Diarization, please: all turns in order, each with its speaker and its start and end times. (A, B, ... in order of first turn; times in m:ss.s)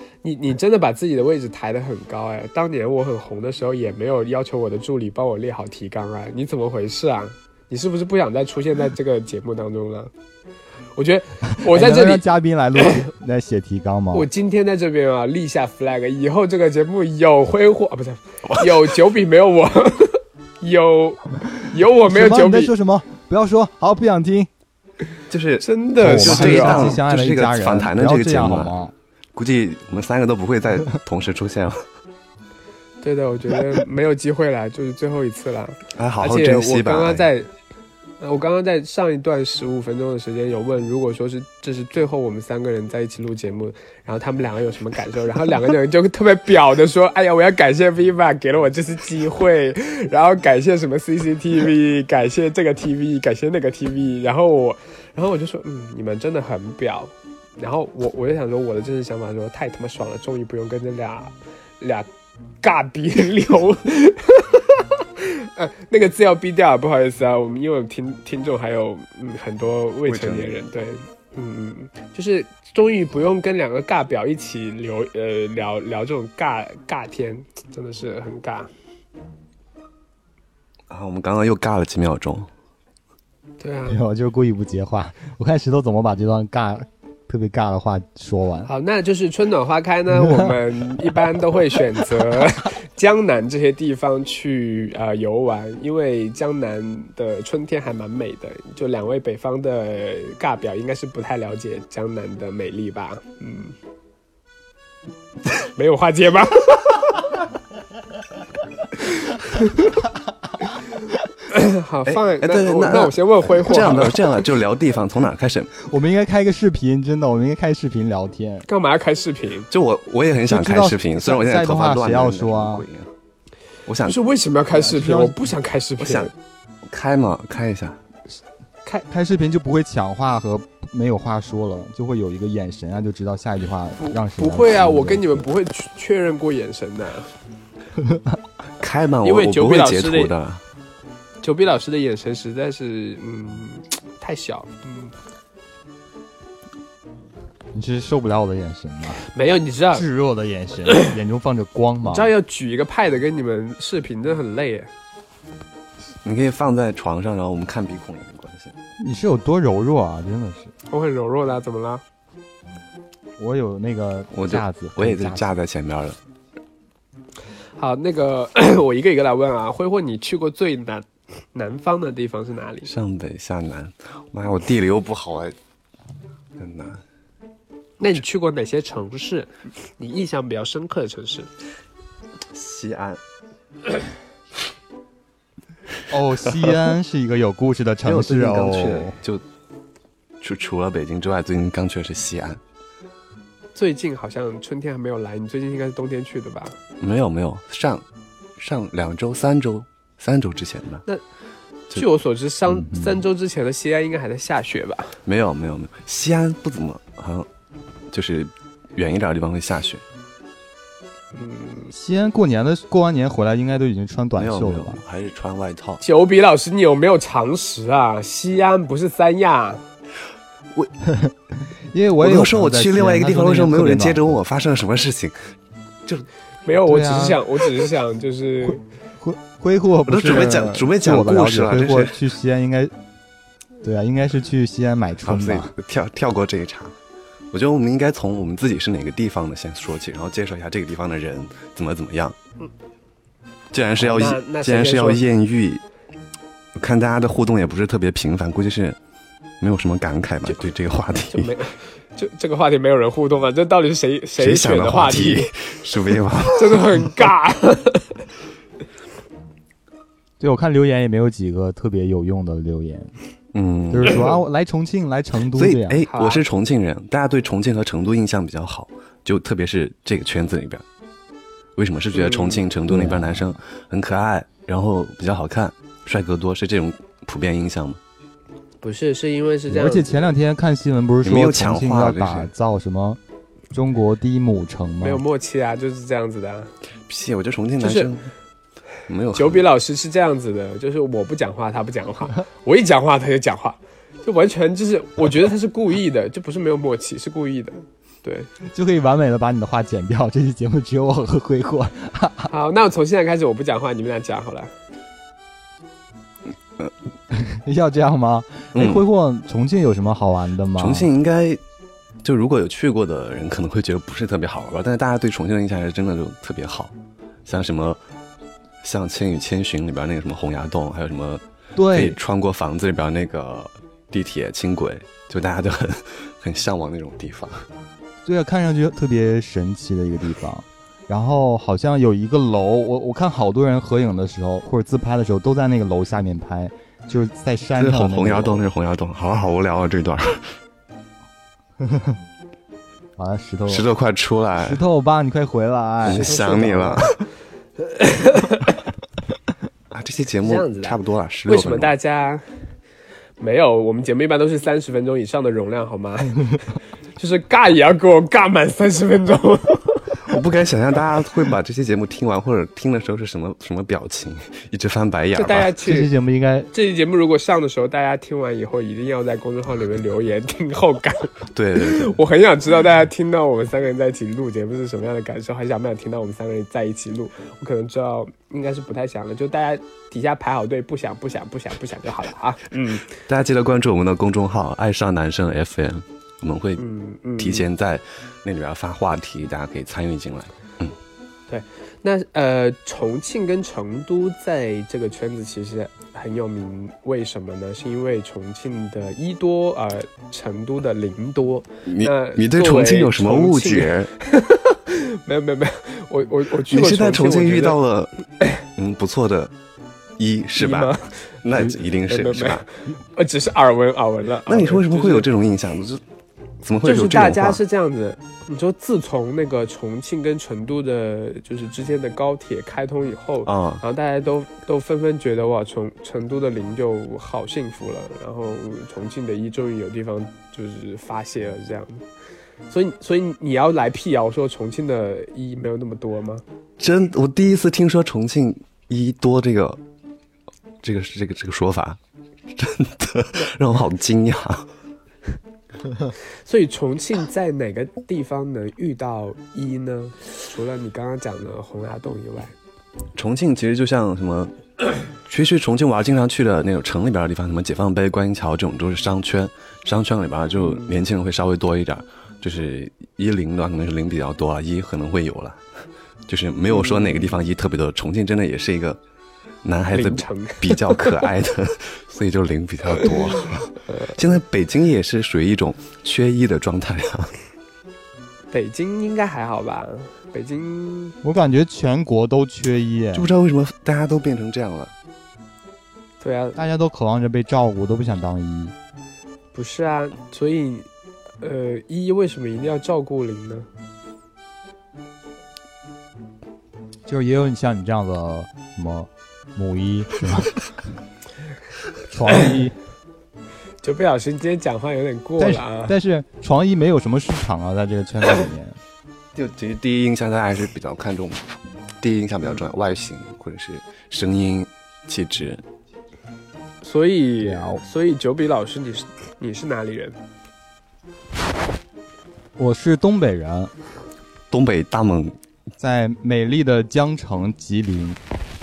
0:00.2-0:10.1 A
0:11.0-0:12.2 A
0:11.7-0:14.2 B
0:12.8-0:13.1 A
0:14.1-0:22.7 A
0:22.1-0:24.5 B
0:25.3-0:28.7 C
0:25.6-0:27.0 A
0:26.0-0:28.9 B
0:29.3-0:31.8 C
0:33.0-0:37.5 A
0:36.0-0:37.3 C
0:38.2-1:02.1 A
1:02.6-1:18.7 A
1:10.1-1:10.5 C
1:20.9-1:22.5 C
1:23.6-1:24.0 A
1:23.9-1:28.7 B
1:28.6-1:43.8 A
1:30.2-1:30.5 B
1:45.6-1:47.2 A
1:49.3-1:49.9 A
1:51.5-1:54.5 A
1:52.1-1:55.7 C
1:55.8-1:58.7 B
1:58.7-1:59.7 A
1:59.7-2:03.1 C
2:00.5-2:02.8 B
2:03.9-2:04.2 C
2:04.1-2:06.3 A
2:04.7-2:05.4 B
2:06.0-2:06.3 C
2:06.9-2:08.0 C
2:09.1-2:15.4 B
2:14.0-2:17.3 A
2:18.0-2:18.4 B
2:18.8-2:20.6 C
2:19.2-2:20.3 A
2:21.4-2:25.1 A
2:27.7-2:29.2 B
2:29.3-2:30.1 A
2:29.9-2:32.3 B
2:30.9-2:31.1 A
2:32.0-2:34.9 A
2:36.2-2:38.8 C
2:39.0-2:40.7 B
2:40.9-2:42.0 A
2:43.4-2:45.5 B
2:44.3-2:46.2 C
2:47.8-2:52.9 A
2:52.9-2:55.6 C
2:56.6-2:57.0 C
2:58.0-3:01.5 A
3:02.5-3:03.2 C
3:06.1-3:09.2 B
3:08.0-3:09.4 C
3:10.4-3:12.6 C
3:13.8-3:16.8 A
3:17.0-3:18.0 C
3:18.6-3:21.0 C
3:21.9-3:25.2 A
3:22.7-3:23.2 B
3:25.2-3:27.5 C
3:28.1-3:30.0 C
3:31.3-3:31.9 A
3:31.9-3:35.0 B
3:34.4-3:36.0 C
3:36.0-3:39.8 A
3:41.0-3:41.3 B
3:41.9-3:44.4 B
3:42.2-3:45.4 C
3:46.6-3:48.8 A
3:46.9-3:47.4 B
3:48.6-3:52.9 B
3:50.1-3:52.2 C
3:53.8-3:55.7 B
3:55.2-3:56.9 C
3:57.5-4:02.4 C
4:03.7-4:05.8 C
4:04.0-4:05.2 A
4:06.8-4:09.0 C
4:09.6-4:11.5 C
4:11.3-4:15.5 A
4:14.4-4:16.8 C
4:16.5-4:18.1 A
4:20.4-4:23.1 B
4:23.5-4:24.3 C
4:23.9-4:26.0 B
4:25.5-4:30.8 C
4:26.1-4:26.4 A
4:31.8-4:38.0 C
4:32.1-4:32.6 A
4:32.9-4:33.5 B
4:38.8-4:40.2 A
4:39.7-4:43.2 B
4:41.2-4:42.5 C
4:43.7-4:45.2 B
4:45.0-4:46.7 A
4:47.1-4:48.3 C
4:47.8-4:48.1 A
4:49.1-4:49.7 C
4:49.4-4:58.5 A
4:58.7-5:02.5 B
5:02.5-5:04.7 A
5:07.3-5:11.1 B
5:08.8-5:09.0 C
5:10.8-5:11.6 C
5:12.2-5:16.9 C
5:17.5-5:18.0 C
5:18.8-5:27.7 C
5:21.8-5:22.2 B
5:28.2-5:38.7 B
5:37.8-5:40.5 C
5:41.8-5:42.2 B
5:43.2-5:43.8 B
5:43.7-5:44.8 C
5:44.6-5:46.3 B
5:46.0-5:47.2 C
5:46.0-5:47.2 A
5:47.8-5:48.7 A
5:49.9-5:51.9 C
5:50.4-5:52.4 A
5:53.4-5:56.6 A
5:57.2-6:00.2 A
6:00.2-6:05.7 C
6:05.4-6:06.1 A
6:05.8-6:06.7 B
6:06.7-6:23.1 A
6:11.5-6:12.2 C
6:23.2-6:26.8 C
6:26.8-6:27.7 A
6:27.4-6:31.0 C
6:31.5-6:47.8 A
6:41.9-6:44.1 C
6:46.7-6:48.2 C
6:48.8-6:49.5 C
6:50.2-6:52.6 C
6:50.6-6:55.3 A
6:54.5-6:56.0 C
6:56.6-6:57.6 C
6:56.8-7:12.0 A
7:03.5-7:03.8 C
7:12.7-7:16.4 A
7:16.8-7:19.8 C
7:20.8-7:22.0 C
7:22.5-7:24.7 C
7:26.4-7:32.5 A
7:33.2-7:34.5 C
7:35.2-7:45.6 C
7:40.6-7:41.0 A
7:46.3-7:49.0 C
7:46.7-7:47.4 A
7:49.6-7:57.3 C
7:49.9-7:51.2 A
7:53.9-7:54.2 A
7:58.5-8:01.2 A
8:01.2-8:03.4 B
8:03.1-8:04.9 C
8:06.2-8:06.6 A
8:06.6-8:08.7 B
8:09.5-8:10.9 A
8:11.4-8:13.7 A
8:17.0-8:20.6 B
8:22.1-8:22.8 B
8:22.3-8:22.6 A
8:23.8-8:26.0 A
8:25.4-8:28.8 B
8:29.4-8:31.4 C
8:32.0-8:35.6 C
8:36.8-8:40.2 A
8:37.4-8:37.8 B
8:42.6-8:43.7 B
8:44.5-8:45.3 C
8:45.8-8:48.2 B